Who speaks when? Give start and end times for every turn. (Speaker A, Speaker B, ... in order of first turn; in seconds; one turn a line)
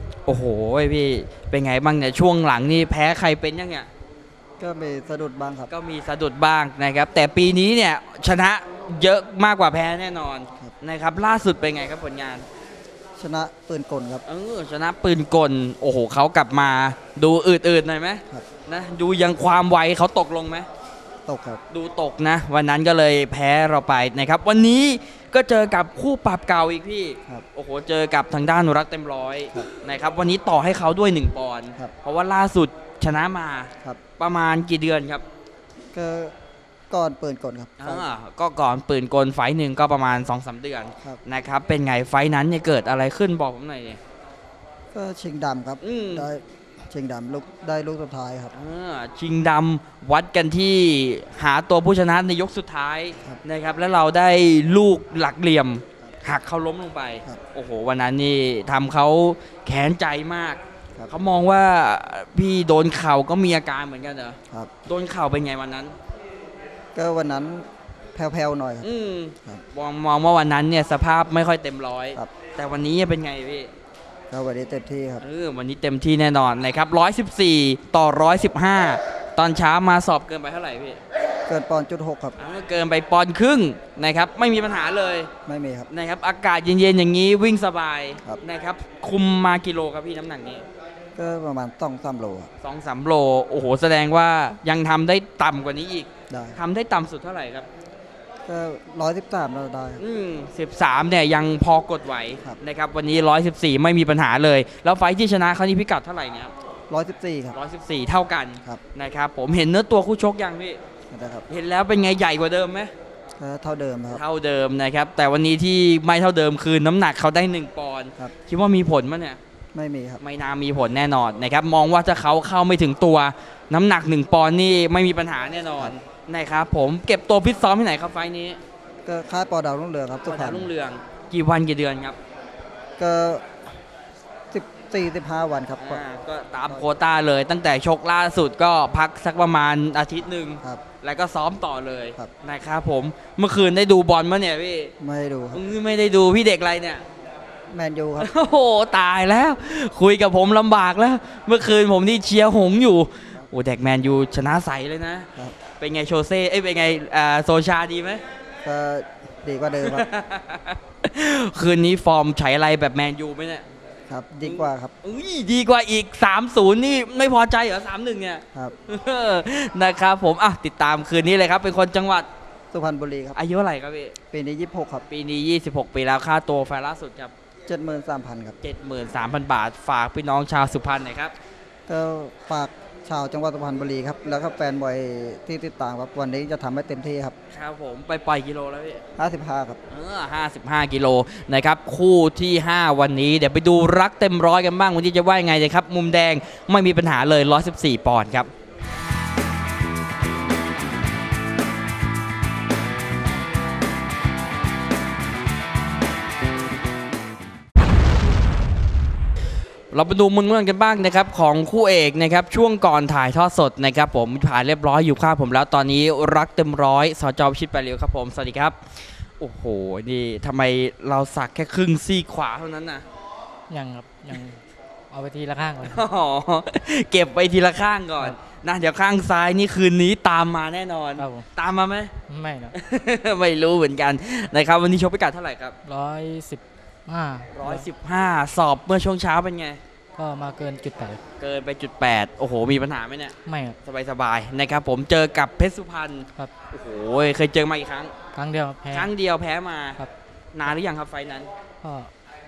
Speaker A: 0.3-3.9
Speaker B: 4.6-5.7
Speaker A: 5.7-12.4
Speaker B: 13.2-14.2
Speaker A: 14.2-20.7
Speaker B: 21.3-21.6
Speaker A: 21.7-35.2
Speaker B: 35.9-36.3
Speaker B: 36.9-38.0
Speaker A: 37.8-44.0
Speaker B: 44.9-48.5
Speaker A: 45.8-46.3
Speaker A: 48.5-66.0
Speaker B: 67.0-68.9
Speaker A: 68.8-73.7
Speaker B: 74.3-75.2
Speaker A: 75.2-81.0
Speaker B: 81.5-82.4
Speaker A: 82.4-85.3
Speaker B: 85.5-85.9
Speaker A: 85.9-90.7
Speaker B: 91.2-92.5
Speaker A: 92.6-97.7
Speaker B: 96.3-96.6
Speaker B: 98.5-100.0
Speaker A: 100.0-106.5
Speaker B: 106.9-107.6
Speaker A: 107.5-110.8
Speaker B: 111.1-111.5
Speaker A: 111.5-112.9
Speaker B: 113.4-114.2
Speaker A: 114.1-119.4
Speaker B: 119.7-120.2
Speaker A: 120.2-128.6
Speaker B: 129.1-130.7
Speaker A: 130.2-132.2
Speaker B: 133.0-133.5
Speaker B: 134.5-136.0
Speaker A: 135.8-144.9
Speaker B: 145.0-145.6
Speaker A: 145.5-147.0
Speaker B: 147.7-148.3
Speaker A: 148.2-158.2
Speaker B: 158.6-160.1
Speaker A: 159.8-163.7
Speaker B: 164.1-164.9
Speaker A: 164.4-172.3
Speaker B: 172.7-173.4
Speaker A: 173.4-174.2
Speaker B: 174.3-175.1
Speaker A: 175.1-177.3
Speaker B: 177.7-178.6
Speaker A: 178.6-181.3
Speaker B: 181.9-187.3
Speaker A: 187.5-189.0
Speaker B: 189.2-189.8
Speaker A: 189.9-198.5
Speaker A: 209.9-218.8
Speaker A: 219.4-223.0
Speaker C: 223.7-226.0
Speaker A: 225.8-232.1
Speaker C: 231.2-231.5
Speaker C: 232.3-232.8
Speaker A: 232.8-235.8
Speaker C: 235.8-237.9
Speaker A: 237.5-239.8
Speaker C: 240.2-241.2
Speaker A: 241.4-248.1
Speaker C: 243.4-243.8
Speaker C: 248.3-249.1
Speaker A: 248.9-250.0
Speaker A: 250.5-251.5
Speaker C: 251.8-252.1